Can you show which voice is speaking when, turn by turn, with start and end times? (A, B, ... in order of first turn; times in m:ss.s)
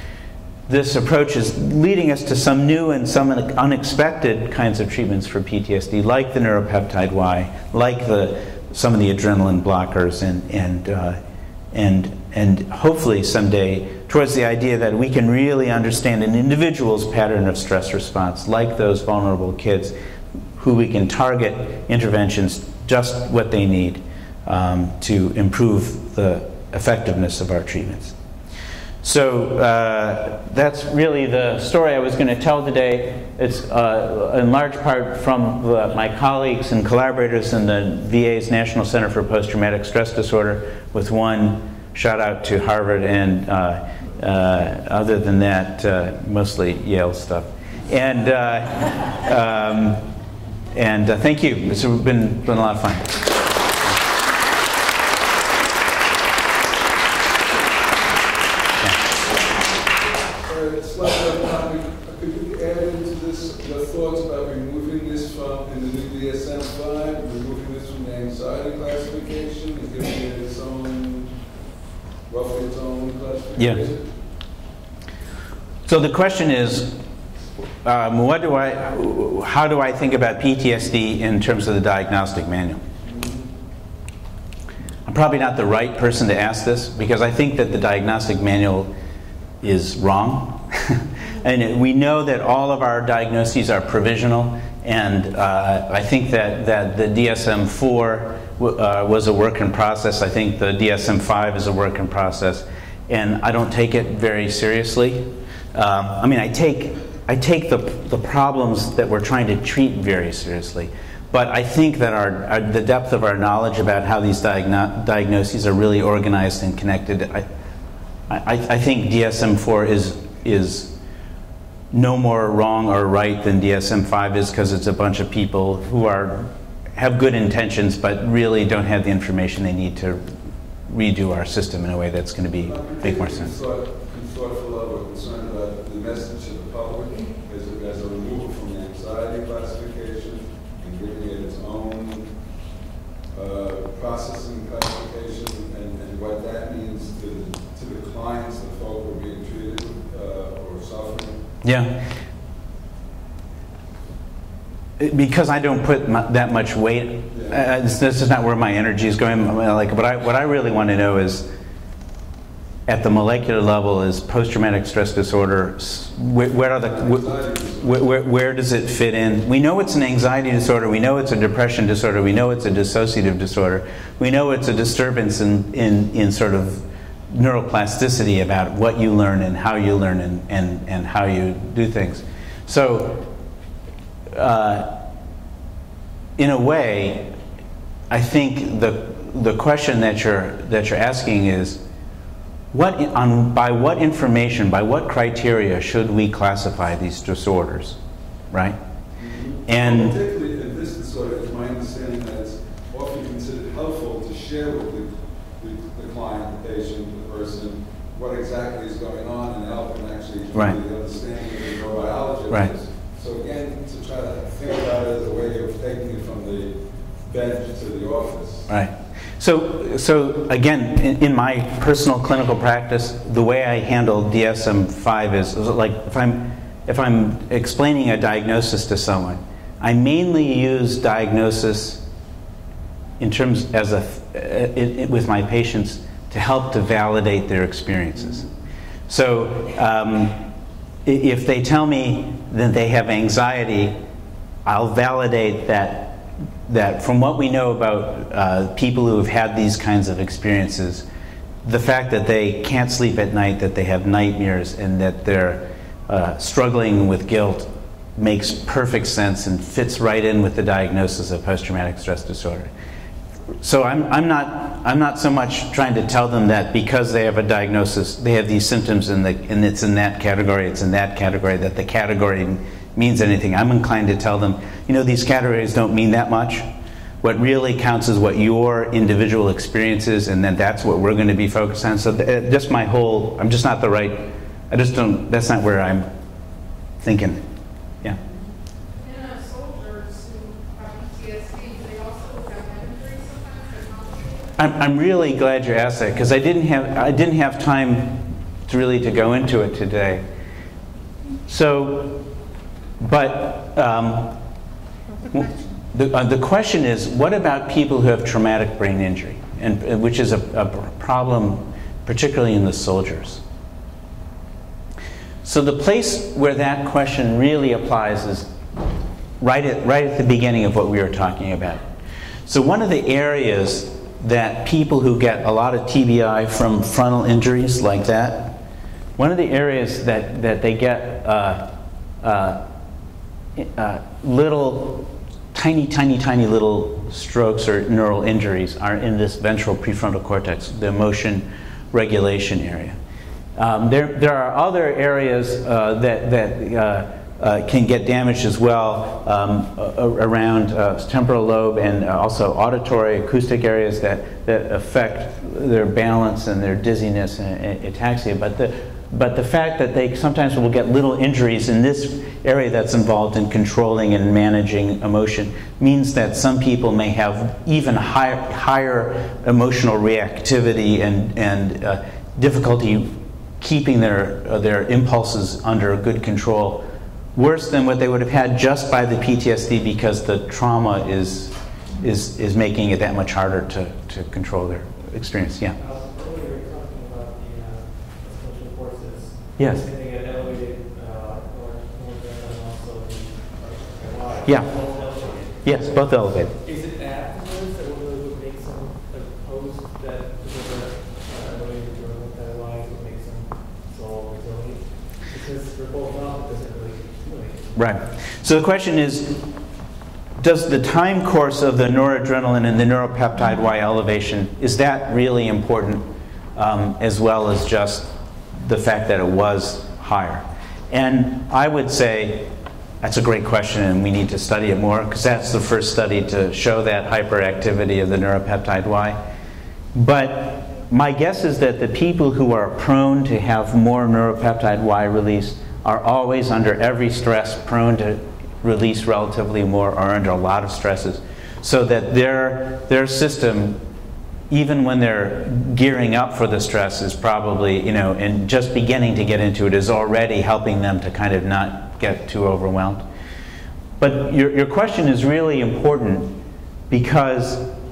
0:00.7-0:11.2 A
0:11.7-0:20.0 A
0:20.6-0:28.2 A
0:29.0-0:50.1 A
0:50.7-0:53.4 A
1:00.4-1:11.3 B
1:12.3-1:14.1 B
1:13.6-1:13.8 A
1:15.9-1:17.0 A
1:17.8-1:22.8 A
1:23.0-1:23.4 B
1:25.1-1:28.9 A
1:29.6-1:57.4 A
1:58.3-2:00.9 A
2:01.9-2:10.3 A
2:10.9-2:13.5 A
2:12.6-2:22.3 B
2:23.3-2:31.4 B
2:31.6-2:32.1 A
2:35.0-2:41.5 A
2:37.3-2:37.6 B
2:42.9-3:03.3 A
2:46.7-2:48.0 B
3:04.3-3:05.0 A
3:06.4-3:07.3 A
3:08.1-3:11.8 A
3:12.7-3:18.0 A
3:18.5-3:18.8 A
3:19.2-3:38.7 B
3:19.7-3:20.2 A
3:30.5-3:30.8 A
3:38.7-3:52.0 A
3:53.2-3:58.5 A
3:59.1-4:00.4 A
4:01.0-4:04.0 A
4:04.6-4:11.1 A
4:11.6-4:22.7 A
4:23.6-4:36.7 A
4:37.2-4:46.1 A
4:47.0-4:47.4 A
4:48.9-4:54.6 C
4:54.6-5:00.2 A
5:01.5-5:02.3 A
5:03.0-5:04.4 A
5:05.3-5:13.4 A
5:15.4-5:18.5 A
5:19.4-5:21.8 A
5:22.4-5:28.6 A
5:29.2-5:32.6 A
5:33.6-5:43.0 A
5:43.6-6:25.8 A
6:25.8-6:47.8 D
6:29.6-6:29.9 A
6:34.4-6:36.5 A
6:47.7-6:49.5 A
6:50.4-7:09.2 A
7:09.9-7:23.8 A
7:24.5-7:33.0 A
7:34.0-7:36.4 A
7:36.9-7:37.7 A